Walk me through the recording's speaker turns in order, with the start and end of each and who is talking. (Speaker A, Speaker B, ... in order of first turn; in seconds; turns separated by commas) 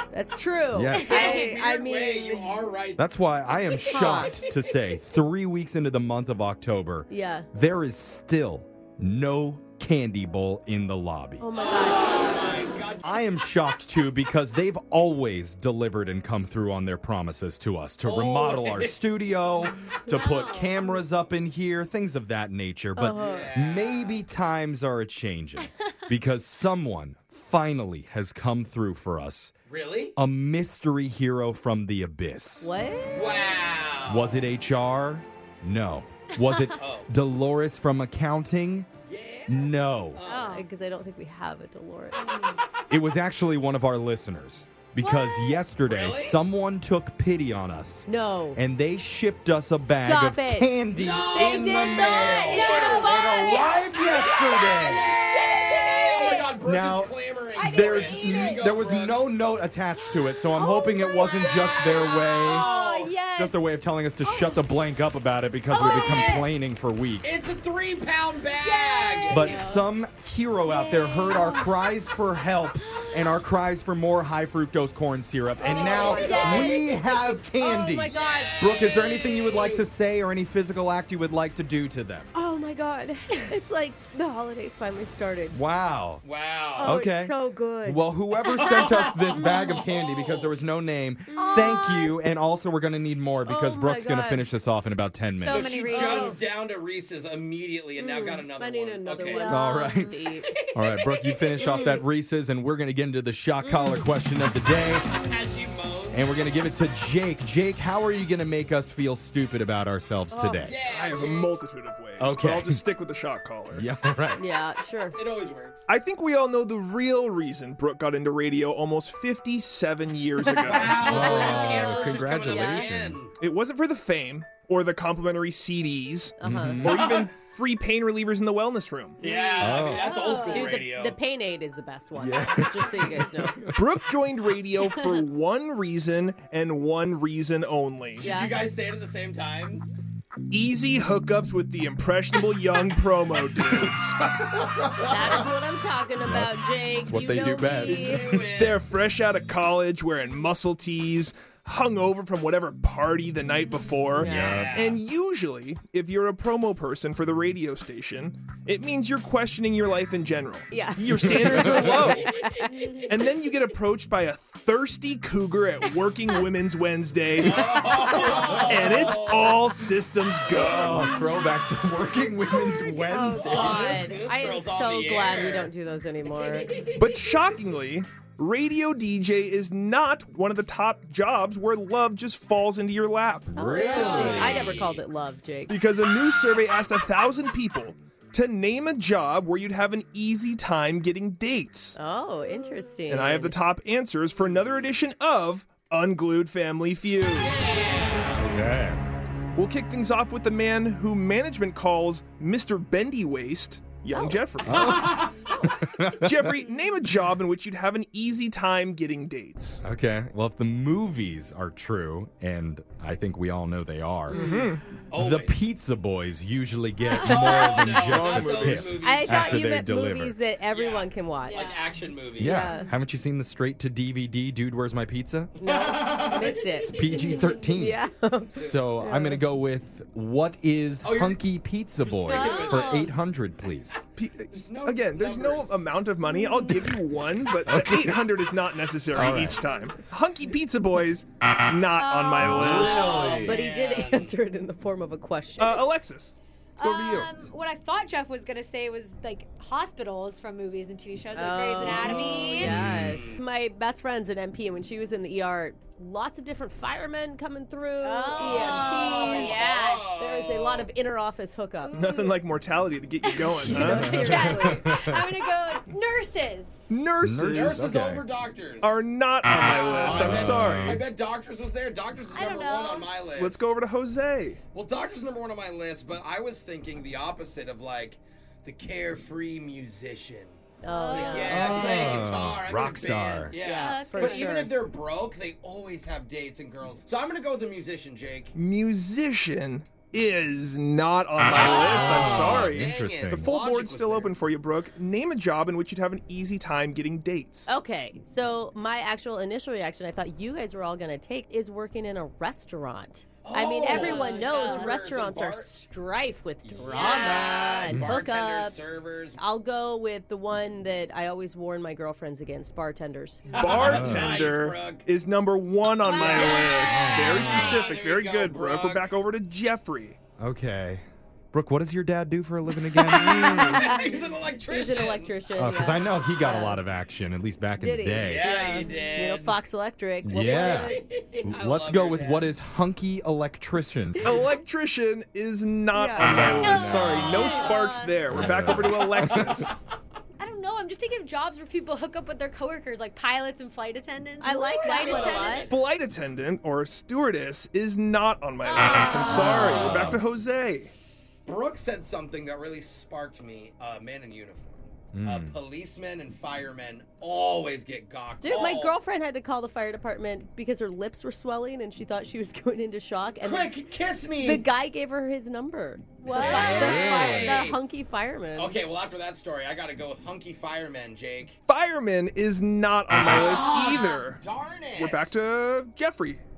Speaker A: 0.1-2.7, Speaker B: 0.7-1.2, Speaker C: 0.9-1.6, Speaker D: 1.0-3.0, Speaker B: 3.0-11.5, Speaker A: 3.8-4.4, Speaker D: 4.0-4.4, Speaker A: 7.1-7.5, Speaker A: 11.4-12.5, Speaker D: 11.6-13.1, Speaker B: 13.0-29.5, Speaker D: 18.0-19.0, Speaker A: 20.1-20.6, Speaker C: 20.4-20.7, Speaker A: 23.0-23.6, Speaker D: 23.2-24.2, Speaker D: 29.7-30.1, Speaker B: 30.2-32.7, Speaker A: 32.6-33.5, Speaker D: 33.1-34.5, Speaker B: 34.1-38.9, Speaker D: 36.8-37.1, Speaker D: 39.1-40.6, Speaker B: 39.5-40.2, Speaker C: 40.3-40.7, Speaker A: 40.3-42.2, Speaker C: 42.1-42.6, Speaker B: 42.9-55.1, Speaker C: 45.0-45.7, Speaker D: 45.8-46.4, Speaker A: 48.1-48.6, Speaker A: 49.8-50.8, Speaker D: 50.9-59.2, Speaker A: 51.3-53.1, Speaker C: 52.1-53.8, Speaker A: 54.5-56.4, Speaker C: 56.2-56.6, Speaker B: 56.6-57.1, Speaker A: 57.6-58.6, Speaker B: 57.7-62.7, Speaker C: 60.6-63.6, Speaker D: 61.3-63.1, Speaker B: 63.4-67.3, Speaker C: 64.2-64.7, Speaker C: 65.7-66.5, Speaker D: 65.7-66.5, Speaker D: 67.2-69.5, Speaker C: 68.5-69.8, Speaker B: 69.3-82.3, Speaker A: 69.4-69.7, Speaker C: 70.6-71.9, Speaker C: 72.7-73.4, Speaker A: 75.6-79.9, Speaker D: 75.6-76.8, Speaker C: 76.1-76.9, Speaker D: 78.1-78.7, Speaker A: 82.3-85.6, Speaker B: 85.5-86.2, Speaker D: 86.2-87.0, Speaker A: 86.8-88.0, Speaker B: 86.8-95.8, Speaker D: 88.6-90.6, Speaker A: 89.3-89.8, Speaker A: 91.3-92.0, Speaker C: 91.3-92.1, Speaker A: 93.5-94.5, Speaker C: 95.3-96.5, Speaker D: 95.5-99.5, Speaker A: 95.9-96.4, Speaker A: 98.0-100.6, Speaker C: 99.2-100.2, Speaker B: 99.5-100.2, Speaker D: 100.7-101.8, Speaker B: 100.7-105.0, Speaker A: 101.6-102.0, Speaker A: 103.6-104.1, Speaker D: 105.1-106.3, Speaker B: 106.1-110.8, Speaker A: 110.3-110.7, Speaker D: 110.6-111.5, Speaker E: 110.9-113.9, Speaker B: 112.2-112.8, Speaker B: 113.7-114.4, Speaker A: 114.4-115.2, Speaker D: 115.2-115.9, Speaker E: 115.9-121.4, Speaker A: 120.4-123.0, Speaker D: 120.6-123.3, Speaker B: 121.0-123.2, Speaker C: 121.3-121.8, Speaker E: 123.4-129.2, Speaker A: 126.4-126.9, Speaker B: 126.4-127.1, Speaker D: 126.9-127.3, Speaker D: 129.2-131.2, Speaker A: 129.2-133.7, Speaker B: 129.6-130.1, Speaker C: 129.7-130.9, Speaker B: 132.2-133.8, Speaker E: 133.7-138.3, Speaker D: 138.2-139.9, Speaker A: 138.2-138.6, Speaker E: 140.5-144.2, Speaker D: 144.4-145.0, Speaker A: 145.0-148.3, Speaker B: 145.2-145.5, Speaker B: 146.2-148.5, Speaker D: 147.5-148.9, Speaker E: 148.6-162.3, Speaker A: 154.2-154.6, Speaker D: 154.2-155.0, Speaker B: 154.2-154.8, Speaker A: 160.7-163.1, Speaker B: 161.3-162.1, Speaker E: 163.1-171.3, Speaker D: 167.4-169.8, Speaker B: 170.5-174.0, Speaker D: 170.6-171.0, Speaker A: 172.7-176.8, Speaker D: 173.2-175.7, Speaker D: 176.3-177.0, Speaker E: 177.0-183.5, Speaker A: 183.5-185.7, Speaker B: 183.5-184.7, Speaker D: 183.7-185.0, Speaker E: 185.7-192.0, Speaker A: 192.0-193.6, Speaker E: 193.1-197.6, Speaker D: 197.4-198.5, Speaker B: 198.4-199.0, Speaker E: 199.5-205.1, Speaker A: 204.1-204.4, Speaker B: 204.7-206.6, Speaker D: 204.7-205.4, Speaker E: 206.2-209.8, Speaker B: 209.8-214.6, Speaker A: 214.3-214.7, Speaker E: 214.3-214.8, Speaker D: 215.1-215.6, Speaker B: 215.1-220.4, Speaker D: 217.1-219.7, Speaker C: 217.2-218.0, Speaker A: 217.8-221.7, Speaker E: 218.4-218.8, Speaker D: 220.7-222.7, Speaker C: 221.5-221.9, Speaker A: 222.4-222.9, Speaker B: 222.4-225.6, Speaker A: 225.6-229.4, Speaker D: 225.6-227.4, Speaker B: 226.9-228.0, Speaker B: 228.6-234.0, Speaker D: 228.6-228.8, Speaker D: 231.0-231.4, Speaker D: 232.0-233.1, Speaker C: 232.3-233.2, Speaker A: 232.4-232.7, Speaker E: 234.2-243.4, Speaker D: 234.5-235.9, Speaker B: 237.7-238.3, Speaker B: 239.1-239.6, Speaker C: 241.9-243.3, Speaker B: 242.5-243.5, Speaker D: 242.5-244.3, Speaker A: 242.9-245.9, Speaker E: 245.6-247.3, Speaker C: 246.8-252.8, Speaker A: 251.3-262.1, Speaker E: 252.0-252.5, Speaker B: 252.6-253.2, Speaker D: 252.9-253.4, Speaker C: 258.0-260.1, Speaker D: 258.4-260.9, Speaker C: 261.8-262.4, Speaker E: 261.9-264.4, Speaker C: 263.2-266.9, Speaker A: 263.6-264.9, Speaker B: 263.8-265.3, Speaker E: 266.9-267.9, Speaker B: 267.2-268.3, Speaker D: 267.4-269.0, Speaker E: 268.8-271.1, Speaker D: 269.7-273.7, Speaker B: 270.1-271.1, Speaker C: 272.3-273.2, Speaker E: 273.3-274.6, Speaker D: 274.7-288.5, Speaker A: 280.8-282.1, Speaker C: 280.9-282.0, Speaker B: 281.5-283.6, Speaker A: 283.5-284.8, Speaker C: 283.7-284.6, Speaker E: 288.5-297.7, Speaker D: 291.6-294.4, Speaker B: 291.9-293.5, Speaker A: 297.7-313.7, Speaker D: 303.4-305.7, Speaker C: 303.8-304.9, Speaker D: 306.7-309.4, Speaker C: 306.9-307.6, Speaker B: 307.9-308.2, Speaker D: 313.5-315.1, Speaker E: 313.6-320.2, Speaker B: 313.7-314.5, Speaker C: 316.0-317.8, Speaker B: 316.9-317.9, Speaker D: 317.4-319.1, Speaker B: 320.4-323.9, Speaker A: 323.0-324.1, Speaker D: 323.1-325.3, Speaker A: 324.7-326.8, Speaker B: 325.6-328.5, Speaker A: 327.8-331.1, Speaker D: 328.2-329.6, Speaker B: 330.2-334.5, Speaker D: 330.3-332.5, Speaker E: 334.2-339.8, Speaker A: 335.9-336.3, Speaker B: 336.2-337.4, Speaker C: 336.6-338.3, Speaker D: 337.3-337.9, Speaker B: 338.3-339.7, Speaker C: 340.4-345.7, Speaker A: 344.4-345.7, Speaker D: 344.8-345.7, Speaker E: 345.7-350.9, Speaker C: 348.6-349.8, Speaker B: 349.3-350.2, Speaker D: 349.6-350.1, Speaker D: 351.5-359.0, Speaker B: 355.1-355.6, Speaker A: 358.4-363.8, Speaker D: 363.4-364.7, Speaker A: 364.4-368.8, Speaker C: 366.2-367.5, Speaker B: 366.3-367.6, Speaker D: 366.4-367.8, Speaker D: 368.6-371.6, Speaker E: 371.7-376.4, Speaker D: 373.2-375.3